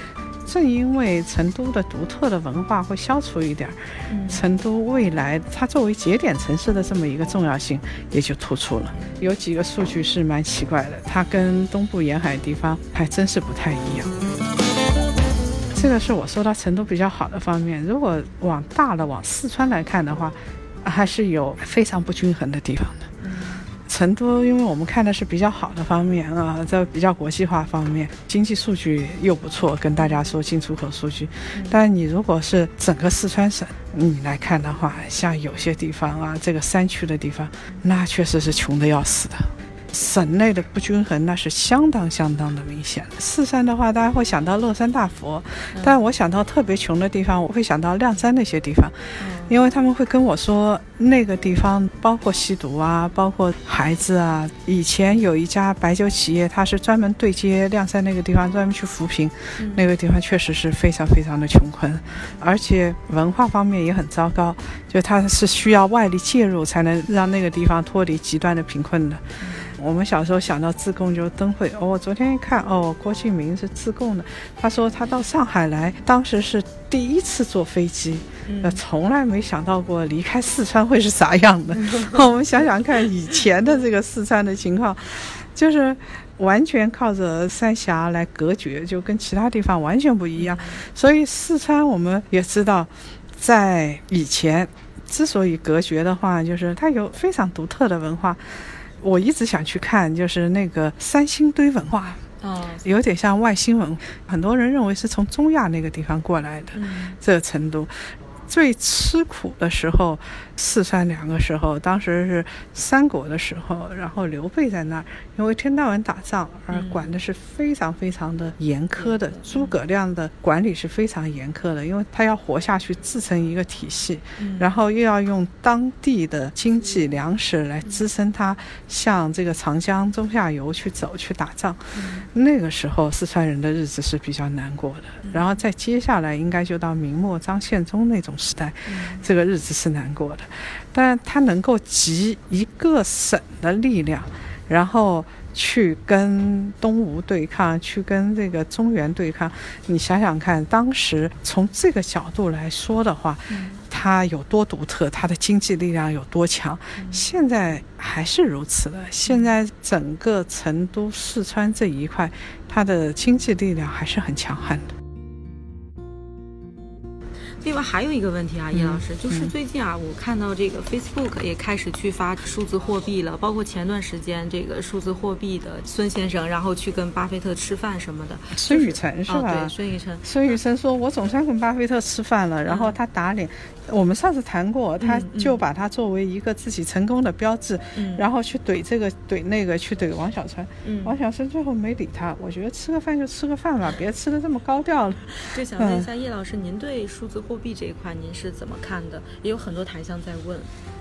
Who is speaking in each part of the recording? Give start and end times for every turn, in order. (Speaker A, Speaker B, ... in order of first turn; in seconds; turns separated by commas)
Speaker A: 0.5-3.8, Speaker B: 4.1-4.4, Speaker A: 4.3-14.1, Speaker A: 15.7-23.1, Speaker B: 23.2-23.7, Speaker A: 23.9-69.2, Speaker B: 31.5-31.8, Speaker B: 45.7-46.0, Speaker B: 49.2-49.6, Speaker B: 59.6-59.9, Speaker B: 69.4-69.7, Speaker A: 69.8-102.2, Speaker B: 78.5-78.8, Speaker B: 81.8-82.2, Speaker B: 90.4-90.8, Speaker B: 102.4-102.8, Speaker A: 102.8-164.9, Speaker B: 106.7-107.2, Speaker B: 116.7-117.1, Speaker B: 119.0-119.8, Speaker B: 124.4-124.7, Speaker B: 131.9-132.3, Speaker B: 135.2-135.6, Speaker B: 138.9-139.2, Speaker B: 153.5-153.8, Speaker B: 157.0-157.2, Speaker B: 159.3-159.5, Speaker B: 167.6-180.6, Speaker A: 168.7-169.5, Speaker A: 178.6-196.1, Speaker B: 182.7-183.0, Speaker B: 185.0-185.6, Speaker B: 187.9-188.2, Speaker B: 190.8-191.2, Speaker B: 195.4-200.7